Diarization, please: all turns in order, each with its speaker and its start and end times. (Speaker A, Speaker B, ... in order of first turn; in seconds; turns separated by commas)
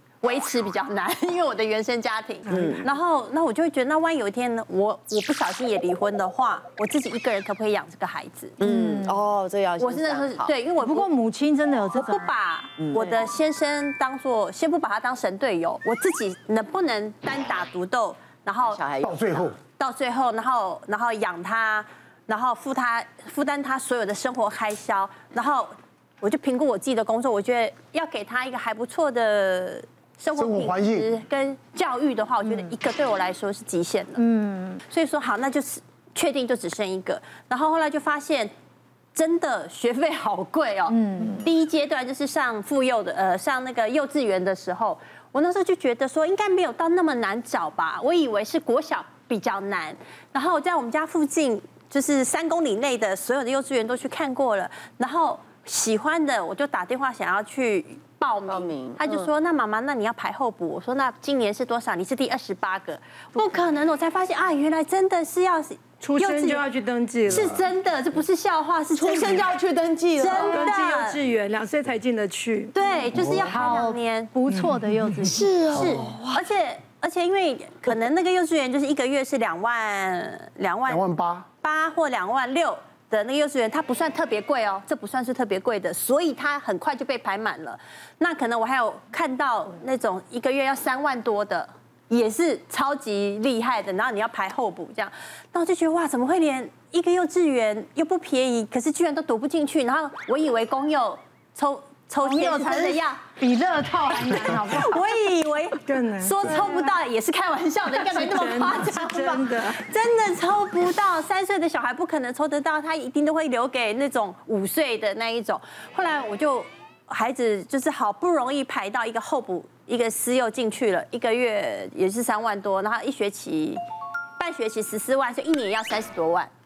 Speaker A: 0.2-8.6, Speaker B: 2.5-2.9, Speaker C: 8.6-9.2, Speaker B: 8.6-10.5, Speaker A: 9.8-11.1, Speaker C: 10.8-12.3, Speaker A: 11.9-18.8, Speaker B: 12.8-13.2, Speaker B: 18.6-19.5, Speaker D: 19.0-19.6, Speaker A: 19.8-34.2, Speaker D: 30.3-31.1, Speaker C: 34.2-34.8, Speaker A: 34.9-38.5, Speaker A: 39.1-66.7, Speaker C: 40.9-41.5, Speaker B: 58.5-59.2, Speaker E: 66.0-67.7, Speaker A: 67.3-71.2, Speaker B: 69.0-70.6, Speaker E: 70.4-72.7, Speaker A: 72.7-74.3, Speaker D: 73.1-73.6, Speaker C: 73.5-75.5, Speaker E: 74.5-75.2, Speaker A: 75.4-81.0, Speaker B: 75.4-76.4, Speaker D: 75.8-76.1, Speaker D: 80.9-81.5, Speaker A: 81.6-103.2, Speaker C: 102.2-105.0, Speaker A: 104.3-123.8, Speaker E: 105.8-106.8, Speaker C: 106.5-106.9, Speaker E: 107.9-109.8, Speaker A: 124.4-126.5